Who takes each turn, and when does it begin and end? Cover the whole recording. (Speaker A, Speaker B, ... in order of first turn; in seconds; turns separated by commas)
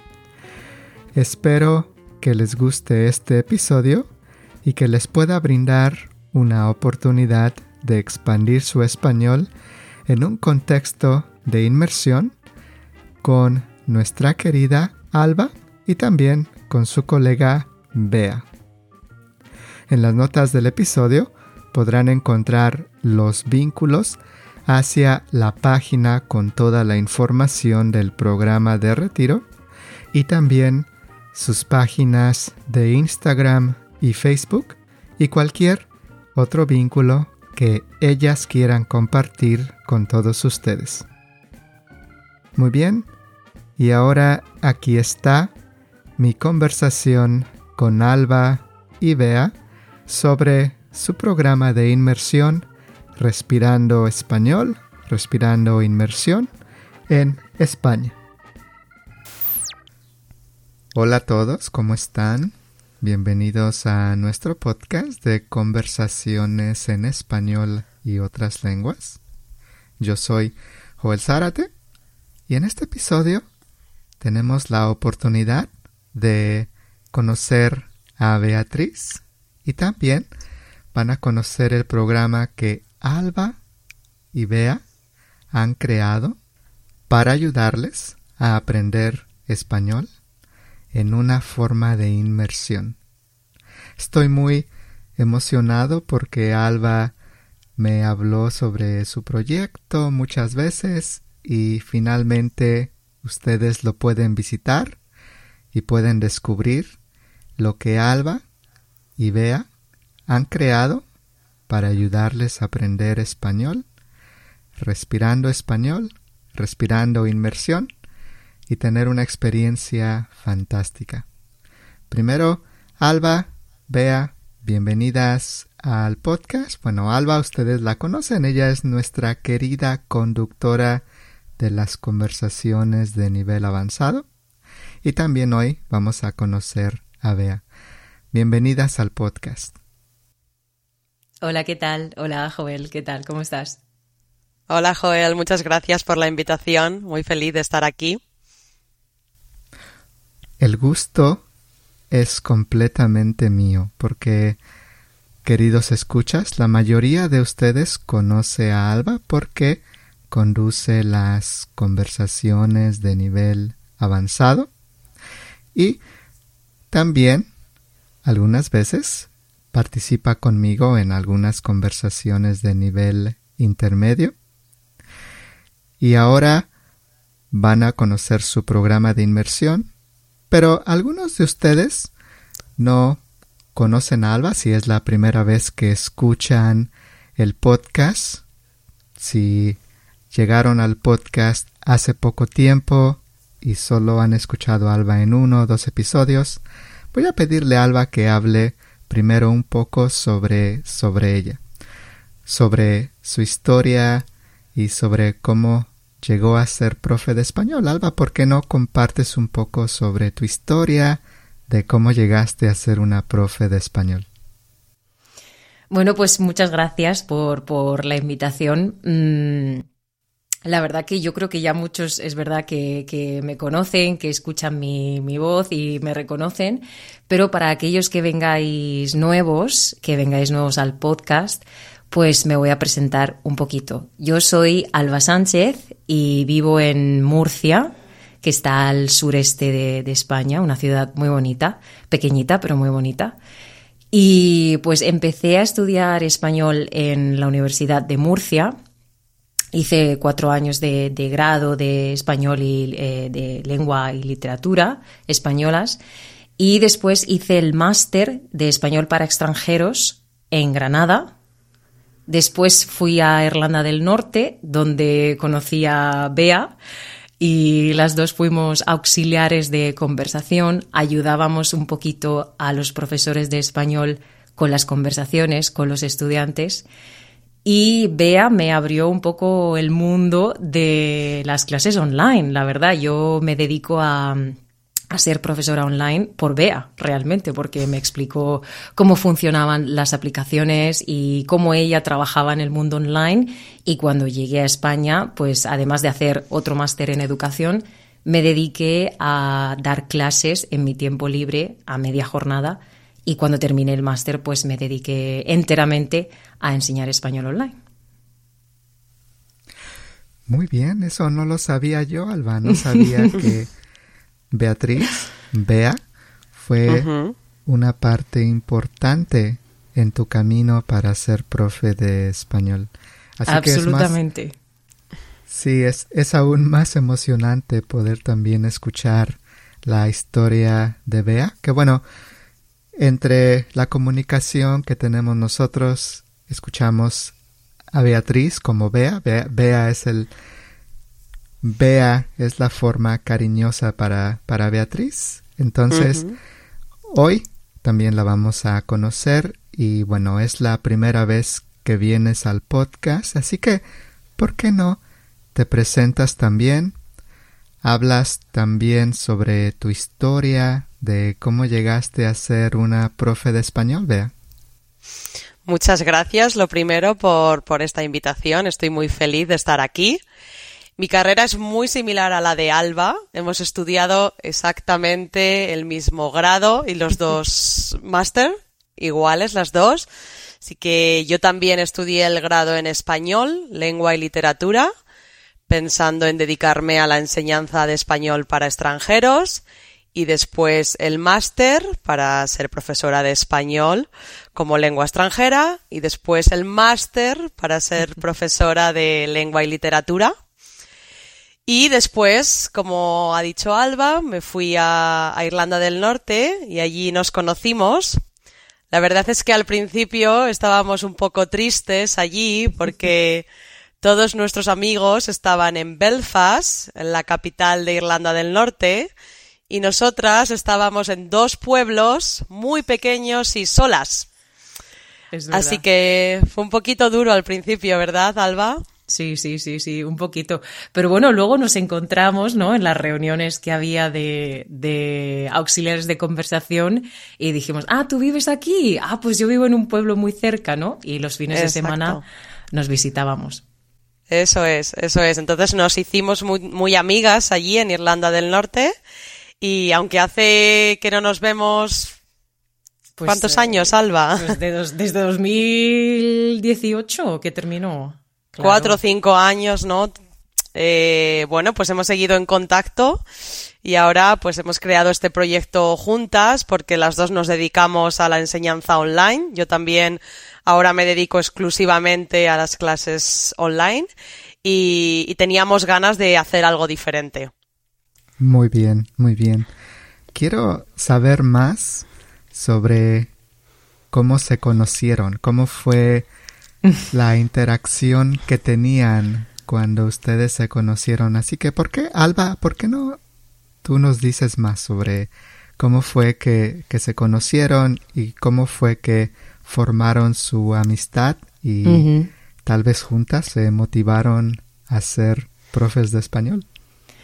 Speaker A: 1.1-4.1, Speaker A: 4.6-9.5, Speaker A: 10.1-12.3, Speaker A: 13.2-18.5, Speaker A: 19.9-29.4, Speaker A: 30.1-41.0, Speaker A: 42.5-43.1, Speaker A: 43.8-45.5, Speaker A: 46.2-49.5, Speaker A: 50.1-56.5, Speaker A: 57.1-58.1, Speaker A: 60.9-69.2, Speaker A: 70.0-71.7, Speaker A: 72.5-73.4, Speaker A: 74.2-80.3, Speaker A: 80.9-83.6, Speaker A: 84.3-84.8, Speaker A: 85.5-86.3, Speaker A: 87.1-90.1, Speaker A: 90.9-93.0, Speaker A: 94.0-97.1, Speaker A: 97.8-105.0, Speaker A: 105.7-107.0, Speaker A: 107.6-108.4, Speaker A: 109.2-109.7, Speaker A: 110.3-111.0, Speaker A: 111.7-113.8, Speaker A: 114.8-117.9, Speaker A: 118.7-121.2, Speaker A: 122.1-131.0, Speaker A: 131.6-134.2, Speaker A: 135.0-137.6, Speaker A: 138.3-139.7, Speaker B: 141.4-143.8, Speaker C: 144.7-148.2, Speaker A: 150.6-151.4, Speaker A: 152.1-154.6, Speaker A: 155.4-164.7, Speaker A: 165.7-166.0, Speaker A: 166.9-167.5, Speaker A: 168.2-174.3, Speaker A: 176.0-176.7, Speaker A: 177.5-179.9, Speaker A: 180.5-182.1, Speaker A: 182.8-183.2, Speaker A: 183.7-188.4, Speaker A: 189.2-189.8, Speaker A: 190.3-196.6, Speaker A: 197.1-201.6, Speaker A: 202.4-214.3, Speaker B: 215.9-219.8, Speaker B: 220.7-243.3, Speaker B: 244.1-248.7, Speaker B: 249.7-256.0, Speaker B: 256.6-261.3, Speaker B: 262.3-266.7, Speaker B: 267.4-276.9, Speaker B: 277.6-284.6, Speaker B: 285.1-307.8, Speaker A: 310.5-313.7, Speaker A: 314.5-316.0, Speaker A: 316.5-317.1, Speaker C: 316.9-317.3, Speaker A: 317.6-324.2, Speaker B: 323.5-324.5, Speaker A: 325.5-332.0, Speaker A: 333.0-337.3, Speaker A: 337.9-340.3, Speaker A: 341.6-346.2, Speaker C: 345.9-346.3, Speaker A: 347.1-353.8, Speaker A: 354.4-355.0, Speaker A: 355.5-356.9, Speaker A: 357.8-364.3, Speaker C: 365.6-370.2, Speaker C: 371.0-380.1, Speaker C: 380.6-384.9, Speaker C: 385.7-389.6, Speaker C: 390.1-400.3, Speaker C: 401.6-408.2, Speaker C: 408.9-413.4, Speaker C: 414.0-419.1, Speaker C: 419.7-424.3, Speaker B: 425.3-425.8, Speaker C: 425.5-428.8, Speaker B: 429.1-442.2, Speaker C: 441.5-442.2, Speaker B: 442.7-443.6, Speaker C: 444.3-448.9, Speaker C: 449.6-452.2, Speaker B: 453.2-459.0, Speaker C: 453.3-454.6, Speaker C: 458.6-460.1, Speaker C: 460.7-463.2, Speaker C: 463.8-474.1, Speaker C: 474.6-477.5, Speaker A: 478.4-479.7, Speaker A: 480.3-483.3, Speaker A: 484.1-486.3, Speaker A: 487.1-493.2, Speaker A: 493.8-502.1, Speaker B: 501.8-502.3, Speaker A: 502.6-506.6